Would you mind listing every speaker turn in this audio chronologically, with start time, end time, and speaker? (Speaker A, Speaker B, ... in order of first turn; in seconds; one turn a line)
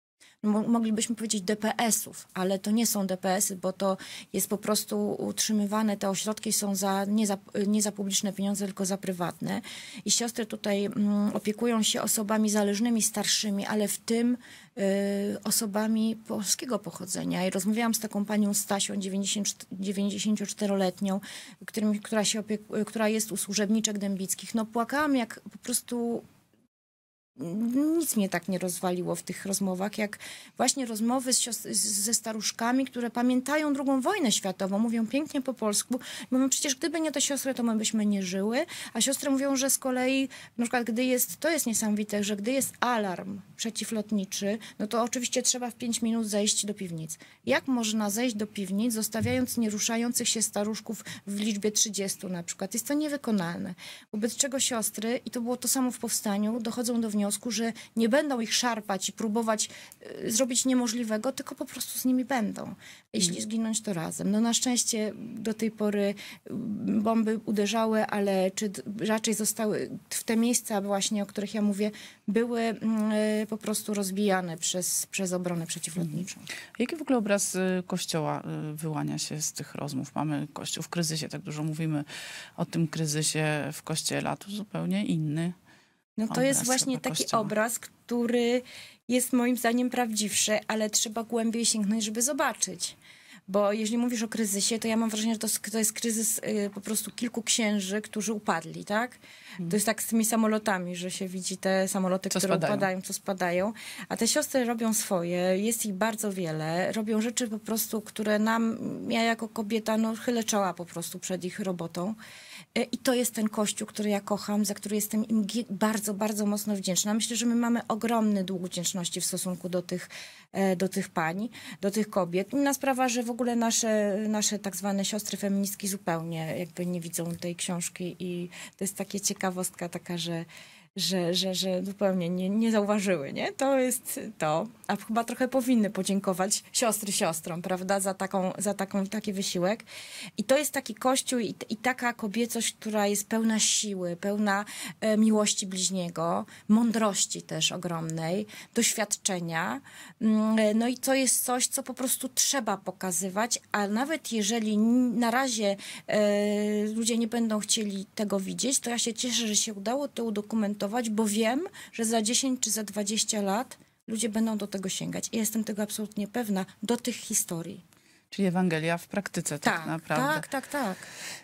Speaker A: 0.4-26.2
Speaker A: 27.4-76.5
Speaker B: 76.8-82.0
Speaker B: 82.6-85.5
Speaker A: 86.2-112.2
Speaker B: 86.3-87.5
Speaker B: 102.3-102.9
Speaker A: 112.8-139.8
Speaker A: 140.4-167.8
Speaker B: 168.3-170.4
Speaker A: 169.6-171.1